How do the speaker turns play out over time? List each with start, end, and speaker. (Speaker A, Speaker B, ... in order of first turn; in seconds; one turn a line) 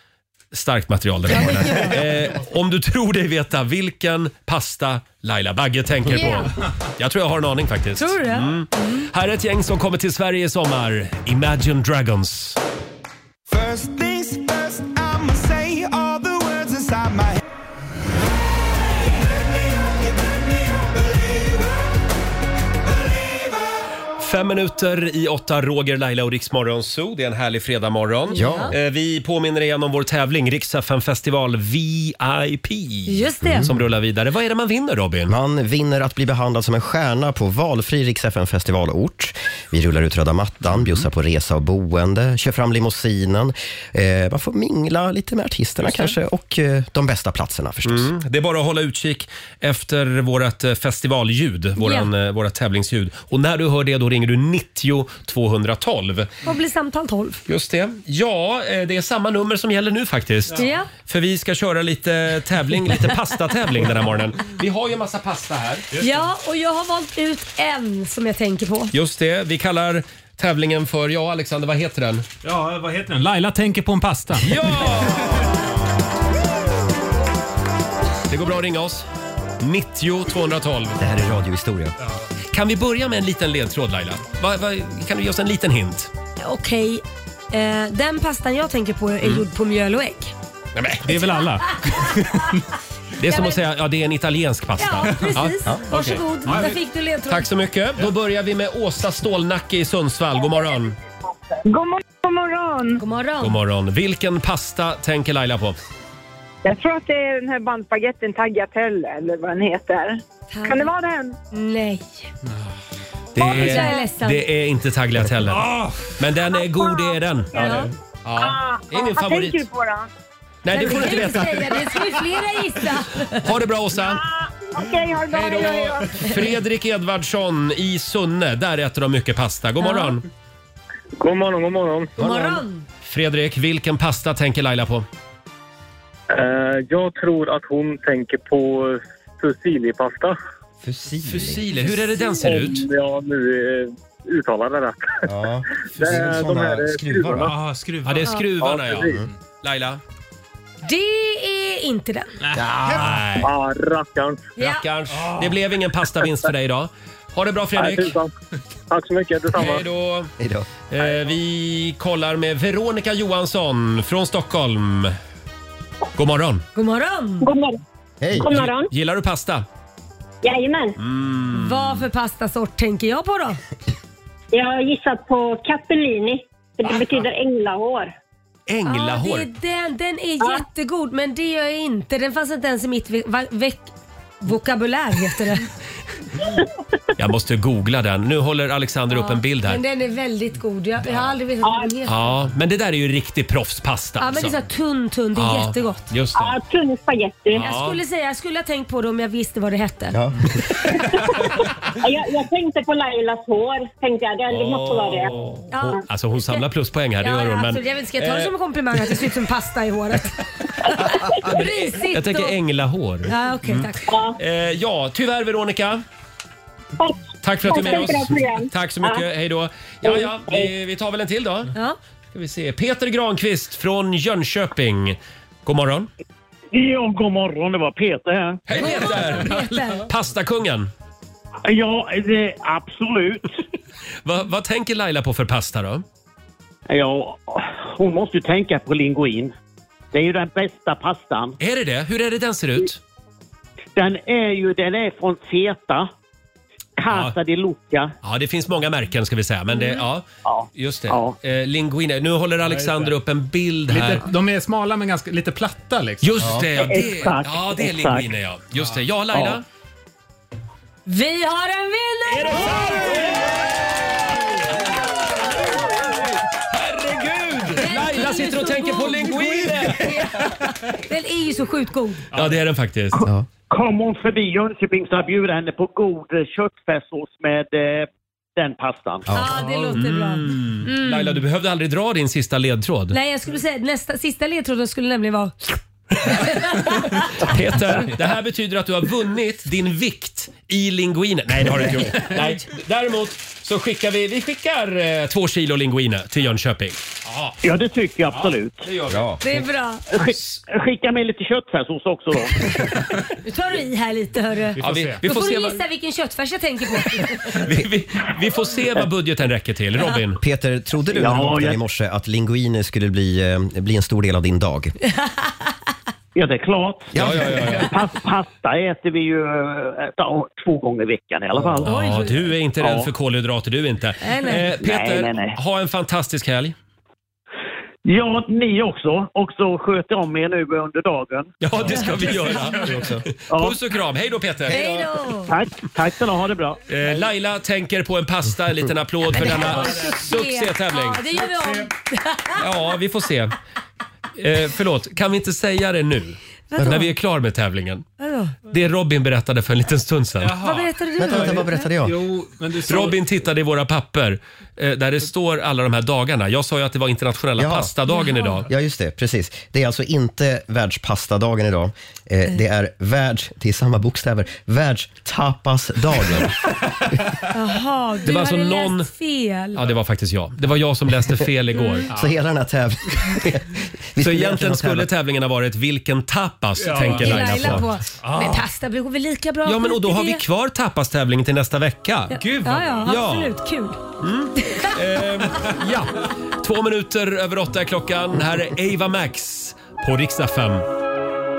Speaker A: 0.5-12.6
Speaker B: 1.3-2.0
Speaker B: 6.1-6.5
Speaker B: 8.0-9.1
Speaker C: 13.5-17.4
Speaker C: 19.4-21.6
Speaker A: 24.2-35.3
Speaker B: 28.3-28.7
Speaker D: 28.3-28.7
Speaker B: 33.1-33.7
Speaker D: 33.4-33.8
Speaker D: 35.3-48.1
Speaker A: 45.8-46.1
Speaker A: 47.8-56.3
Speaker B: 51.8-52.1
Speaker B: 56.4-57.4
Speaker A: 57.5-65.9
Speaker B: 60.5-60.9
Speaker B: 66.0-68.9
Speaker A: 68.9-72.3
Speaker E: 72.4-74.5
Speaker A: 74.3-75.5
Speaker A: 78.3-79.0
Speaker A: 79.6-81.0
Speaker D: 81.0-82.0
Speaker A: 82.5-86.1
Speaker B: 86.4-90.3
Speaker A: 90.7-91.4
Speaker E: 91.0-92.6
Speaker A: 93.2-96.2
Speaker B: 93.3-93.6
Speaker B: 94.8-97.5
Speaker E: 96.0-96.7
Speaker A: 97.3-101.0
Speaker F: 101.6-103.0
Speaker B: 103.0-103.6
Speaker A: 103.4-105.8
Speaker F: 106.6-111.4
Speaker B: 110.5-110.9
Speaker B: 111.5-112.3
Speaker E: 112.5-112.7
Speaker A: 113.3-119.6
Speaker B: 113.4-114.4
Speaker E: 113.4-113.8
Speaker E: 115.6-116.0
Speaker B: 117.5-117.9
Speaker F: 118.9-120.1
Speaker A: 120.6-121.8
Speaker B: 120.7-123.5
Speaker A: 123.4-124.2
Speaker F: 124.7-126.4
Speaker A: 125.3-130.2
Speaker B: 129.8-130.1
Speaker G: 131.2-132.1
Speaker B: 132.2-132.9
Speaker D: 132.2-132.5
Speaker A: 133.0-135.1
Speaker G: 136.3-140.4
Speaker D: 140.8-141.8
Speaker A: 141.2-142.8
Speaker G: 142.3-145.3
Speaker D: 145.2-147.5
Speaker G: 145.9-147.5
Speaker E: 147.4-148.3
Speaker A: 148.0-150.0
Speaker G: 148.6-149.2
Speaker B: 150.8-152.3
Speaker E: 152.4-153.1
Speaker A: 152.9-153.5
Speaker G: 153.4-154.5
Speaker B: 154.6-154.8
Speaker A: 154.6-158.1
Speaker E: 155.2-155.5
Speaker G: 157.8-158.3
Speaker G: 158.9-159.8
Speaker A: 159.6-160.3
Speaker D: 160.4-160.7
Speaker A: 160.9-165.1
Speaker A: 166.1-166.6
Speaker B: 166.7-167.5
Speaker H: 167.4-167.8
Speaker D: 168.2-168.6
Speaker H: 168.4-168.9
Speaker A: 168.4-169.6
Speaker H: 170.4-170.9
Speaker A: 171.0-172.1
Speaker B: 171.5-173.6
Speaker H: 174.5-178.1
Speaker A: 178.7-179.5
Speaker B: 178.8-183.9
Speaker B: 184.4-185.7
Speaker A: 187.2-189.8
Speaker B: 189.1-192.2
Speaker H: 191.6-191.9
Speaker A: 192.0-194.6
Speaker B: 194.2-196.1
Speaker A: 195.3-196.6
Speaker H: 196.3-197.7
Speaker A: 197.5-198.0
Speaker B: 197.6-200.2
Speaker D: 200.1-200.4
Speaker H: 202.0-205.3
Speaker A: 204.5-208.5
Speaker B: 205.7-206.7
Speaker B: 207.2-210.4
Speaker A: 211.2-216.0
Speaker B: 211.2-212.6
Speaker B: 213.3-214.0
Speaker H: 214.1-214.4
Speaker H: 217.0-219.2
Speaker A: 217.4-221.7
Speaker B: 217.7-218.1
Speaker A: 222.3-226.1
Speaker I: 226.7-228.6
Speaker A: 228.7-230.9
Speaker B: 228.8-230.0
Speaker I: 231.6-233.6
Speaker A: 234.2-236.0
Speaker I: 236.9-239.5
Speaker I: 240.1-241.6
Speaker A: 241.6-243.0
Speaker I: 243.9-246.1
Speaker I: 247.0-248.1
Speaker A: 247.1-247.3
Speaker A: 248.2-254.3
Speaker I: 250.4-251.4
Speaker E: 252.6-253.1
Speaker E: 253.9-256.5
Speaker A: 256.2-259.6
Speaker I: 256.8-258.3
Speaker I: 259.3-259.6
Speaker B: 261.1-263.1
Speaker A: 262.2-264.3
Speaker A: 266.7-270.2
Speaker B: 267.8-272.3
Speaker A: 272.3-273.2
Speaker I: 273.2-279.3
Speaker D: 279.3-279.6
Speaker B: 279.3-281.4
Speaker A: 279.9-283.1
Speaker B: 283.1-287.1
Speaker A: 287.3-297.0
Speaker I: 297.6-298.9
Speaker A: 298.8-299.4
Speaker D: 299.1-299.4
Speaker B: 299.4-300.0
Speaker I: 300.1-302.8
Speaker A: 300.3-300.6
Speaker B: 303.4-307.6
Speaker E: 304.8-305.2
Speaker A: 304.8-305.8
Speaker A: 307.5-310.4
Speaker D: 310.4-314.9
Speaker I: 311.1-311.8
Speaker I: 316.3-321.9
Speaker D: 317.1-317.5
Speaker A: 317.1-317.9
Speaker A: 321.8-326.7
Speaker B: 321.9-322.4
Speaker I: 322.8-323.1
Speaker B: 324.2-324.6
Speaker I: 324.8-325.5
Speaker I: 328.0-331.5
Speaker A: 331.6-335.1
Speaker D: 332.9-333.2
Speaker I: 333.5-333.8
Speaker B: 334.7-335.5
Speaker I: 335.5-336.8
Speaker A: 336.9-341.3
Speaker B: 339.3-342.6
Speaker E: 339.7-340.1
Speaker E: 341.6-341.9
Speaker A: 342.6-343.5
Speaker A: 344.4-348.0
Speaker B: 346.7-347.1
Speaker B: 348.2-348.6
Speaker A: 348.7-350.6
Speaker E: 350.4-353.2
Speaker B: 350.6-351.9
Speaker D: 351.2-352.2
Speaker A: 352.8-358.7
Speaker D: 357.6-357.9
Speaker B: 358.1-358.6
Speaker D: 358.7-366.6
Speaker B: 367.5-369.8
Speaker A: 368.2-369.1
Speaker A: 369.7-372.1
Speaker B: 371.7-372.1
Speaker D: 372.1-373.6
Speaker D: 374.1-375.1
Speaker A: 374.2-378.4
Speaker E: 376.8-378.6
Speaker B: 376.9-380.4
Speaker A: 379.6-382.4
Speaker B: 382.3-384.0
Speaker E: 382.4-382.9
Speaker A: 383.0-383.5
Speaker A: 384.2-390.9
Speaker B: 384.6-384.9